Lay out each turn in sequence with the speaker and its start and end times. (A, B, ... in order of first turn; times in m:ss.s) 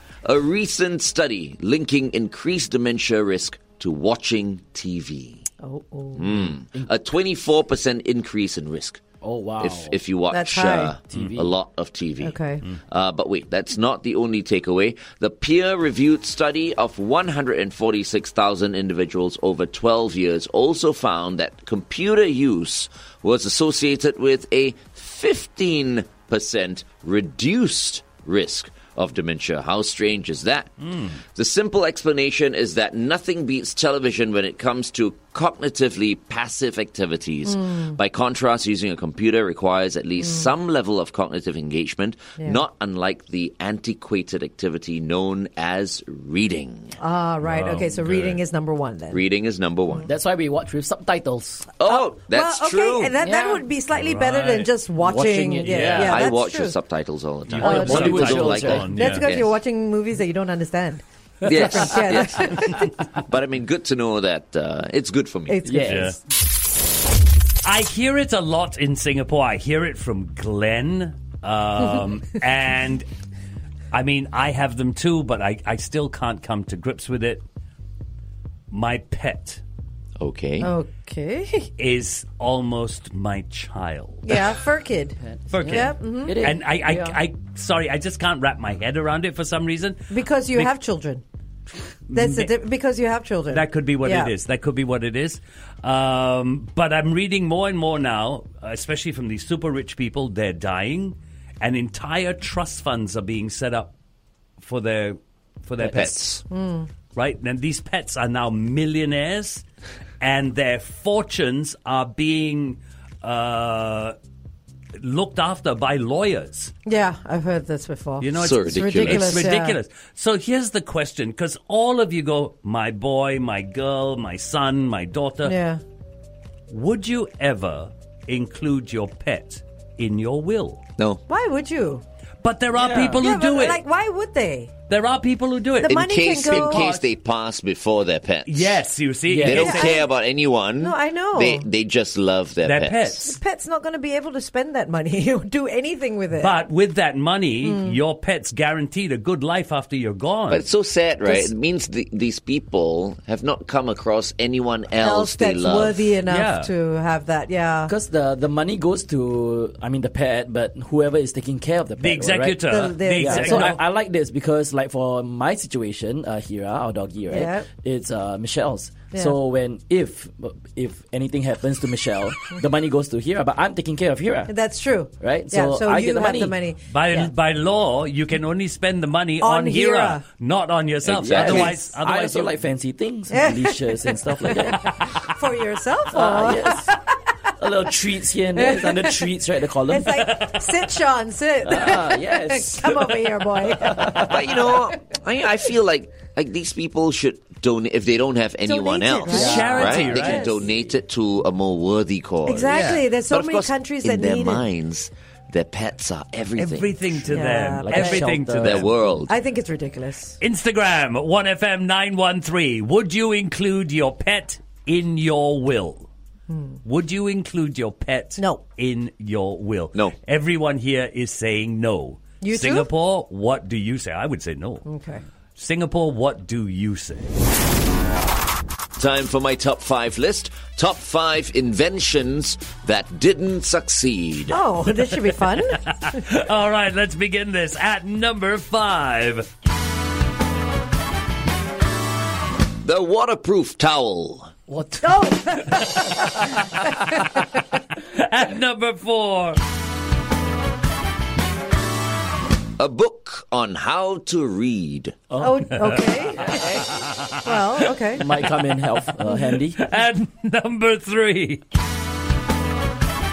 0:00.2-0:05.5 A
0:05.6-0:06.3 B
0:06.2-0:09.0 A
0:09.2-0:10.0 C
0:09.6-0:30.7 A
0:10.3-0:11.0 B
0:11.1-0:11.5 C
0:12.2-0:12.6 B
0:30.8-0:31.2 D
0:31.3-0:47.0 A
0:37.5-0:38.0 B
0:40.2-0:40.5 B
0:47.0-0:49.2 B
0:47.4-0:48.4 D
0:49.1-0:50.1 A
0:50.1-0:51.7 C
0:51.8-0:53.1 A
0:51.9-0:56.8 B
0:53.2-0:53.6 C
0:54.0-0:54.7 D
0:55.0-0:56.2 C
0:55.6-0:56.1 D
0:55.9-0:59.6 A
0:57.5-0:59.2 D
0:57.6-0:59.0 C
0:57.6-1:02.9 B
1:01.4-1:05.8 A
1:05.5-1:06.2 B
1:05.7-1:06.1 C
1:05.9-1:06.2 D
1:07.6-1:13.1 D
1:13.9-1:17.4 D
1:18.7-1:19.6 D
1:20.2-1:20.7 A
1:20.6-1:21.7 B
1:21.8-1:24.3 D
1:24.2-1:26.4 B
1:25.2-1:27.2 C
1:25.5-1:30.7 D
1:30.1-1:31.2 B
1:32.1-1:32.5 D
1:32.1-1:34.3 B
1:33.5-1:43.9 D
1:44.6-1:46.3 D
1:45.8-1:46.4 A
1:46.5-1:46.9 B
1:47.2-1:49.6 D
1:50.2-1:54.2 D
1:55.0-1:56.7 D
1:56.9-1:59.8 B
1:58.2-2:05.6 D
1:58.3-1:59.5 A
2:05.4-2:05.8 B
2:06.7-2:10.8 D
2:11.3-2:12.0 B
2:12.4-2:13.8 D
2:12.7-2:13.2 C
2:13.2-2:14.7 B
2:14.9-2:17.1 D
2:15.8-2:16.9 B
2:15.8-2:18.8 A
2:18.5-2:20.0 D
2:19.3-2:19.8 C
2:19.4-2:23.2 A
2:19.5-2:20.1 B
2:20.8-2:21.7 B
2:22.6-2:23.4 D
2:23.2-2:26.6 B
2:26.4-2:30.6 D
2:27.6-2:28.0 B
2:30.5-2:36.0 A
2:31.2-2:31.5 B
2:35.0-2:37.9 B
2:36.3-2:36.7 D
2:37.9-2:54.5 C
2:42.0-2:43.8 D
2:42.7-2:43.7 B
2:47.3-2:47.7 B
2:54.5-2:57.3 B
2:55.2-2:56.6 C
2:56.9-3:02.5 D
2:59.4-3:00.2 B
3:01.1-3:05.0 C
3:01.2-3:01.7 A
3:03.3-3:04.1 B
3:04.9-3:07.1 B
3:06.1-3:06.9 C
3:07.6-3:10.3 C
3:08.6-3:09.3 B
3:09.9-3:14.3 B
3:11.6-3:14.4 C
3:14.2-3:27.3 A
3:18.7-3:20.6 B
3:19.3-3:20.0 C
3:19.3-3:20.5 D
3:22.5-3:24.6 B
3:22.7-3:23.0 D
3:26.6-3:28.9 D
3:27.3-3:28.3 B
3:27.7-3:28.9 C
3:28.6-3:29.3 A
3:29.3-3:30.4 B
3:30.4-3:36.1 D
3:36.5-3:36.8 B
3:36.8-3:44.9 D
3:38.4-3:38.6 B
3:42.4-3:42.9 B
3:44.9-3:45.2 B
3:45.6-3:47.3 D
3:49.0-3:54.6 A
3:54.5-3:56.2 B
3:55.5-3:59.5 D
4:02.8-4:04.5 A
4:04.7-4:05.6 C
4:05.0-4:06.4 B
4:08.1-4:09.6 D
4:12.8-4:15.2 A
4:15.3-4:16.9 C
4:15.4-4:16.7 B
4:15.8-4:16.0 D
4:16.9-4:17.3 D
4:17.4-4:18.2 B
4:18.2-4:19.8 C
4:19.8-4:21.6 D